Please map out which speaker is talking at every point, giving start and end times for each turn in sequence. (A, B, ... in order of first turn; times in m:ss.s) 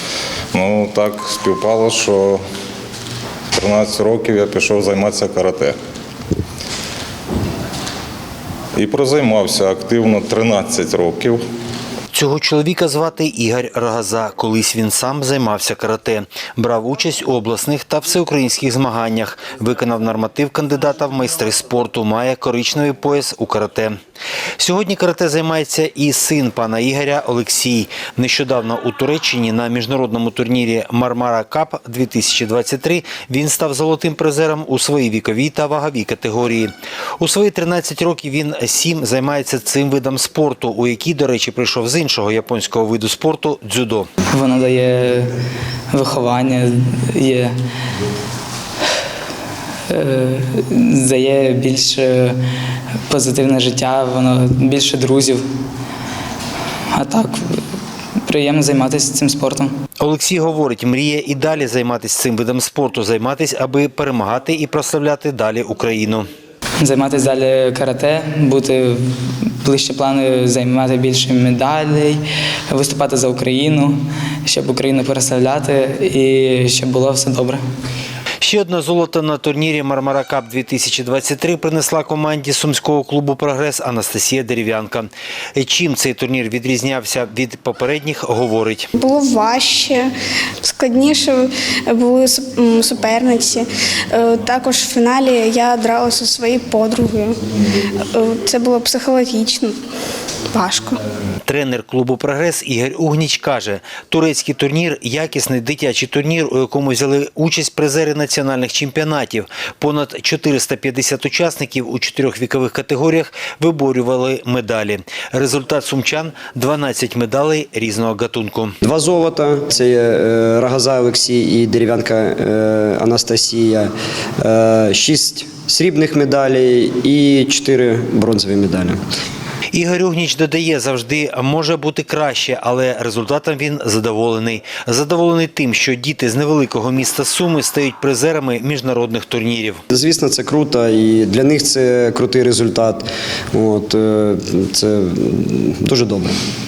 0:00.5-0:02.4 A
0:03.5-0:05.8 A
0:08.8-0:11.4 A
0:12.1-0:24.0 B
0:24.6-0:44.1 B
0:44.3-0:45.3 C
0:45.9-0:47.5 C
0:49.9-0:52.4 C
0:53.1-0:55.4 C
0:56.9-0:57.6 C
0:58.3-0:59.7 C
1:00.0-1:06.3 B
1:06.8-1:09.0 C
1:09.6-1:17.6 C
1:18.4-1:28.9 B
1:29.0-1:30.1 D
1:30.6-1:37.4 D
1:38.0-1:39.7 D
1:40.5-1:41.0 D
1:41.4-1:58.7 B
1:58.8-2:09.0 E
2:09.7-2:19.8 B
2:19.9-2:26.3 E